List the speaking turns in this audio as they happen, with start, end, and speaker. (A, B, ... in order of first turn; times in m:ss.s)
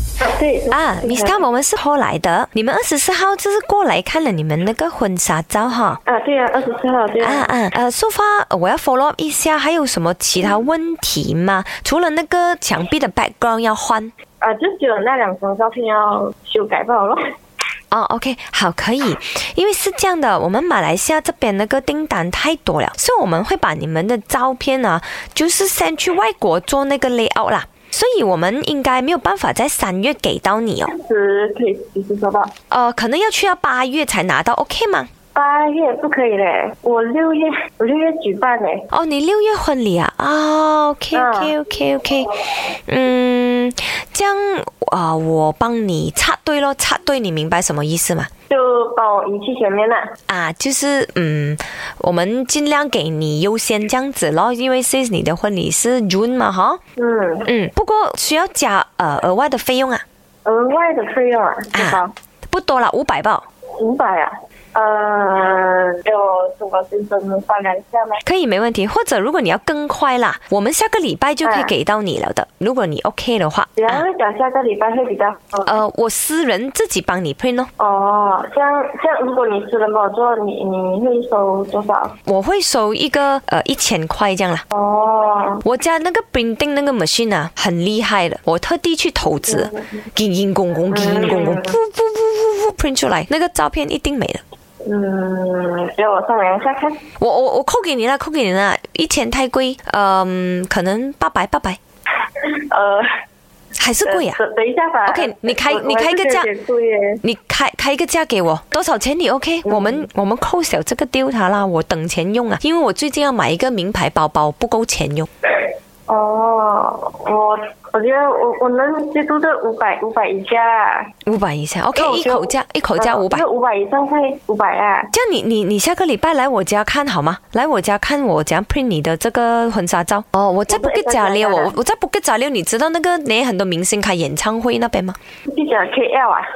0:00.2-0:01.4 A
0:00.7-0:06.0 B
0:06.0-0:07.5 A
0:07.2-0:14.1 B
0:14.4-0:17.2 A
0:17.9-0:30.9 B
0:30.9-0:32.5 A
0:32.7-0:35.1 B
0:35.3-0:38.9 A
0:38.9-0:48.3 B
0:41.1-0:41.5 A
0:48.5-0:50.1 A
0:50.3-0:56.8 B
0:57.0-0:57.5 A
0:57.4-1:00.0 B
1:00.4-1:02.1 A
1:01.7-1:03.4 B
1:03.8-1:08.2 A
1:08.2-1:14.0 B
1:11.4-1:11.7 A
1:13.8-1:15.8 A
1:15.6-1:17.7 B
1:17.8-1:22.1 A
1:22.2-1:24.6 B
1:24.7-1:25.6 A
1:25.6-1:34.4 B
1:29.5-1:30.0 A
1:30.9-1:31.8 A
1:34.8-1:37.0 A
1:37.2-1:41.8 B
1:42.4-1:43.0 A
1:43.8-1:44.4 B
1:44.0-1:47.2 A
1:45.1-1:46.5 B
1:47.2-1:55.3 B
1:49.6-1:50.0 A
1:56.1-2:01.1 A
2:01.2-2:03.4 B
2:01.9-2:05.1 A
2:05.1-2:15.2 B
2:10.7-2:11.7 A
2:15.5-2:16.4 A